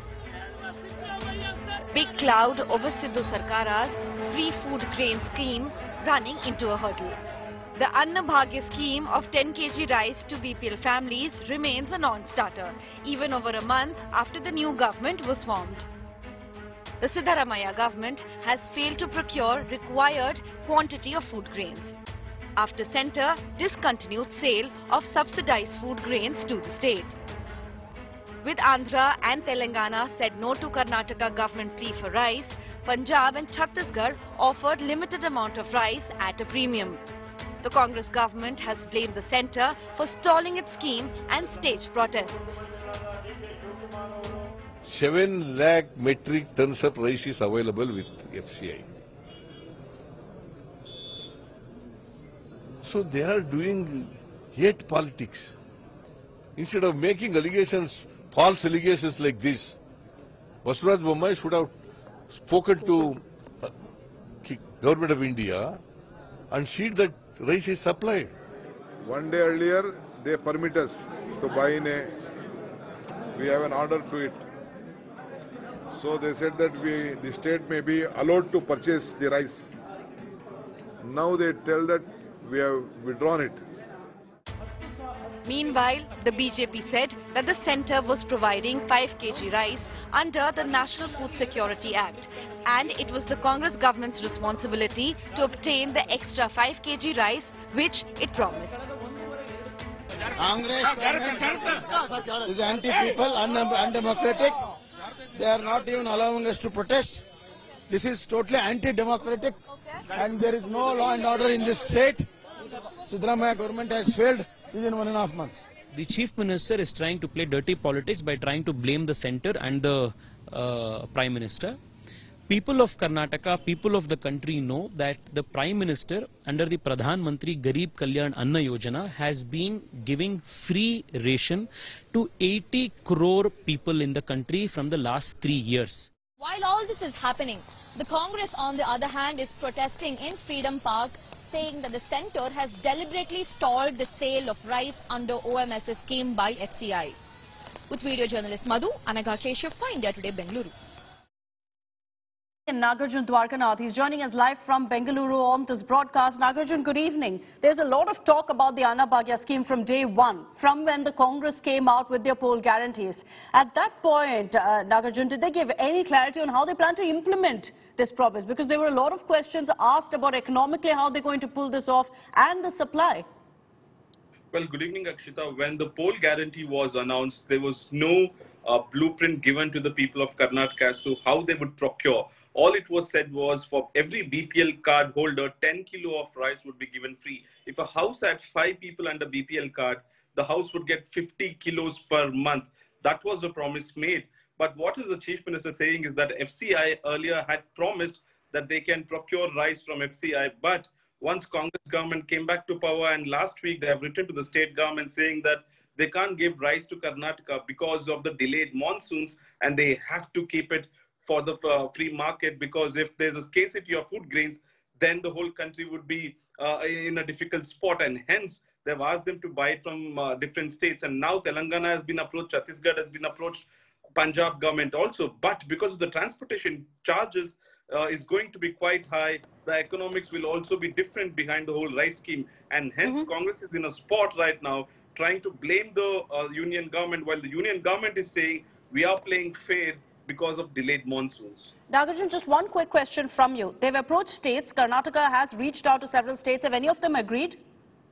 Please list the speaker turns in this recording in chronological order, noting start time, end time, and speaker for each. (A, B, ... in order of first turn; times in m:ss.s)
0:01.9-0:07.2 A
0:07.7-0:15.9 A
0:17.0-0:21.9 A
0:22.6-0:27.2 A
0:28.4-0:37.0 A
0:37.6-0:42.6 A
0:44.8-0:48.9 B
0:52.8-0:55.5 B
0:56.6-0:59.8 B
1:00.6-1:01.7 B
1:02.3-1:03.7 B
1:04.4-1:05.8 B
1:06.5-1:08.3 B
1:09.0-1:12.1 C
1:13.4-1:14.4 C
1:15.9-1:19.7 C
1:21.0-1:23.6 C
1:25.4-1:38.8 A
1:40.4-1:41.8 D
1:42.4-1:44.5 D
1:45.3-1:47.2 D
1:47.9-1:49.5 D
1:50.2-1:52.2 D
1:53.1-1:55.6 D
1:55.9-2:01.8 E
2:02.5-2:16.1 E
2:16.4-2:27.2 F
2:27.9-2:30.7 F
2:32.7-2:53.2 G
2:54.5-4:01.7 H
4:01.9-4:07.6 G